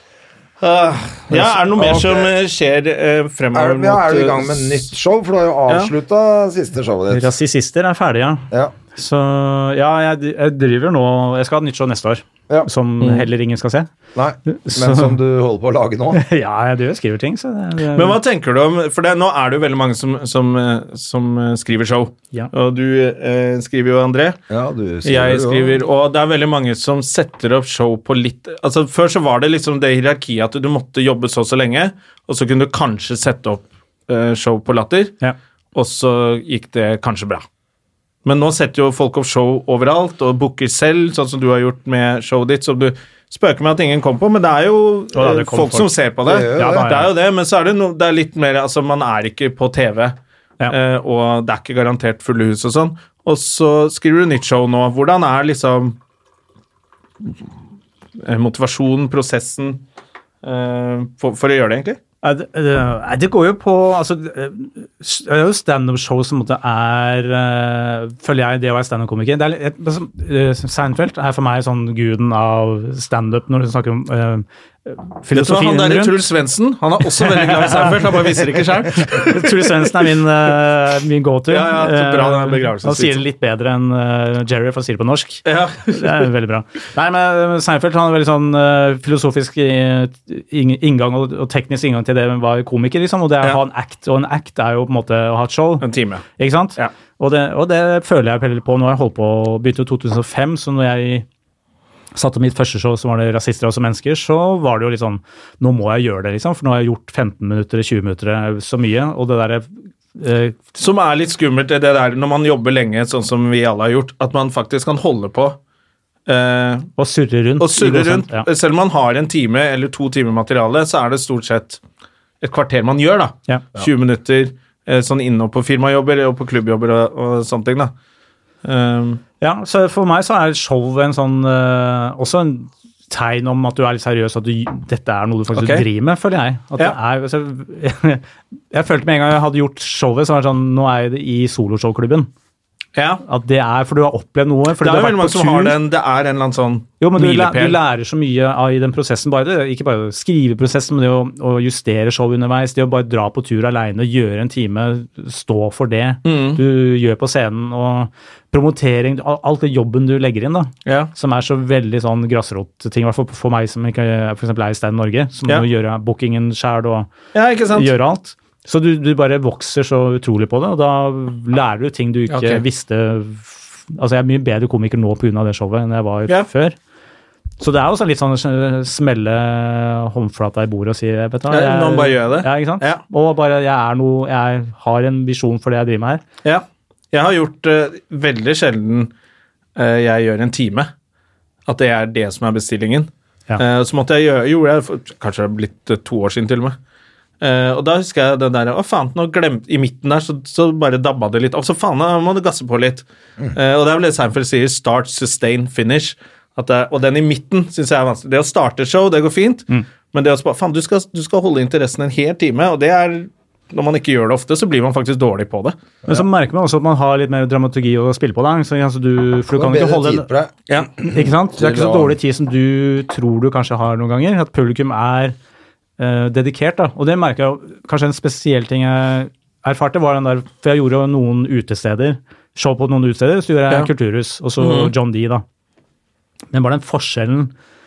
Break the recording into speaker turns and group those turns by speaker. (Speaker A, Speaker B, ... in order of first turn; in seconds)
Speaker A: 0.6-4.8, 13.0-13.2, 17.9-24.4, 25.0-35.2, 35.7-37.4, 38.2-50.2, 50.7-56.0, 58.2-59.8, 60.4-62.0, 75.3-80.1, 81.5-83.2, 85.4-86.2, 95.8-96.9, 110.8-115.6, 116.3-116.9, 117.6-121.8, 122.4-127.9, 128.6-129.2, 135.5-135.8, 142.9-143.2, 144.8-147.8, 156.2-156.6, 160.8-161.1, 167.3-167.9, 172.3-172.6, 181.5-183.0, 186.4-189.1, 189.8-190.9, 191.7-196.8, 197.4-215.8, 234.6-234.9
Speaker B: 1.3-2.3, 3.5-7.3, 14.1-16.2, 24.5-25.8, 46.2-46.9, 219.5-220.5, 221.1-222.2
Speaker C: 7.1-13.9, 14.5-15.2, 16.1-18.2, 45.1-45.9, 46.5-47.1, 62.2-76.2, 77.2-78.3, 79.0-95.8, 96.4-101.2, 102.1-110.6, 117.0-118.5, 129.4-142.3, 143.2-145.8, 147.0-167.1, 167.7-176.8, 177.6-186.2, 216.1-220.3, 221.0-225.3, 226.0-235.4, 236.5-237.5